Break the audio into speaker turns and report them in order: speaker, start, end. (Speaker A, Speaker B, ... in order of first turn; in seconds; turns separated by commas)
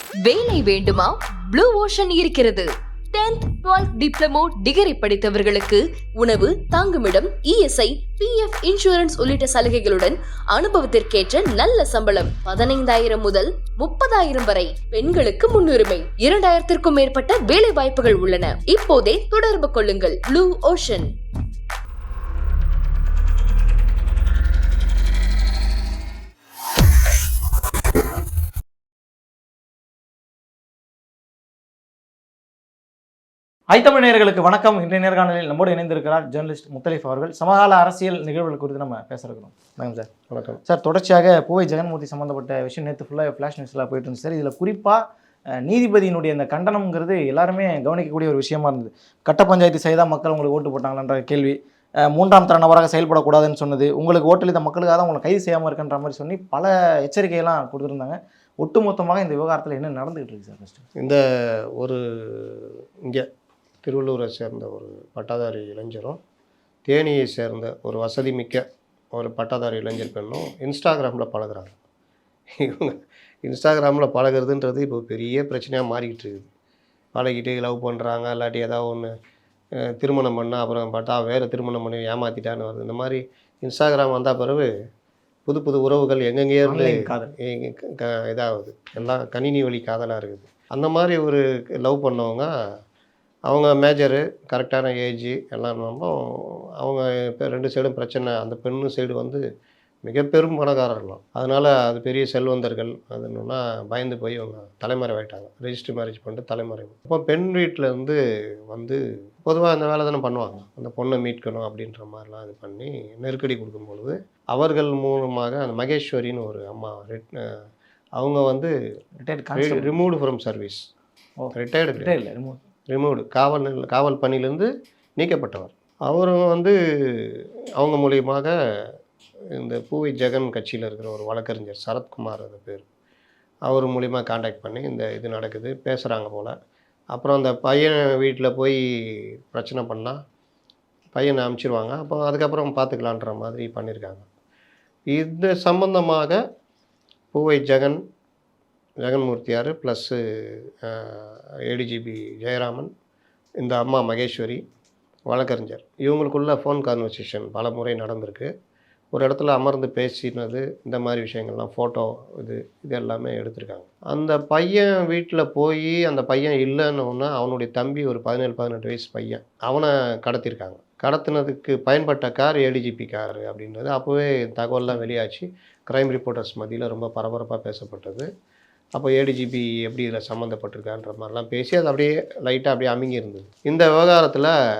Speaker A: 0.2-21.1, Speaker B: 33.7-40.1, Speaker C: 40.3-40.6, Speaker B: 40.6-45.0, Speaker B: 45.6-60.8, Speaker C: 61.0-63.3, Speaker C: 63.8-66.2, Speaker C: 66.8-71.8, Speaker C: 72.6-76.5, Speaker C: 77.1-79.1, Speaker C: 79.9-84.7, Speaker C: 85.5-92.5, Speaker B: 86.6-87.3, Speaker C: 93.5-99.4, Speaker C: 100.0-108.2, Speaker C: 108.7-117.6, Speaker C: 118.2-118.7, Speaker B: 119.2-119.9, Speaker C: 119.5-120.8, Speaker B: 121.4-122.6, Speaker C: 121.5-122.1, Speaker C: 122.9-128.5, Speaker C: 129.5-132.8, Speaker C: 133.7-136.5, Speaker C: 137.1-140.2, Speaker C: 141.1-144.2, Speaker C: 145.1-146.4, Speaker C: 147.3-148.0, Speaker C: 149.0-152.9, Speaker C: 153.6-154.6, Speaker C: 155.3-158.5, Speaker C: 159.1-178.3, Speaker C: 178.9-184.5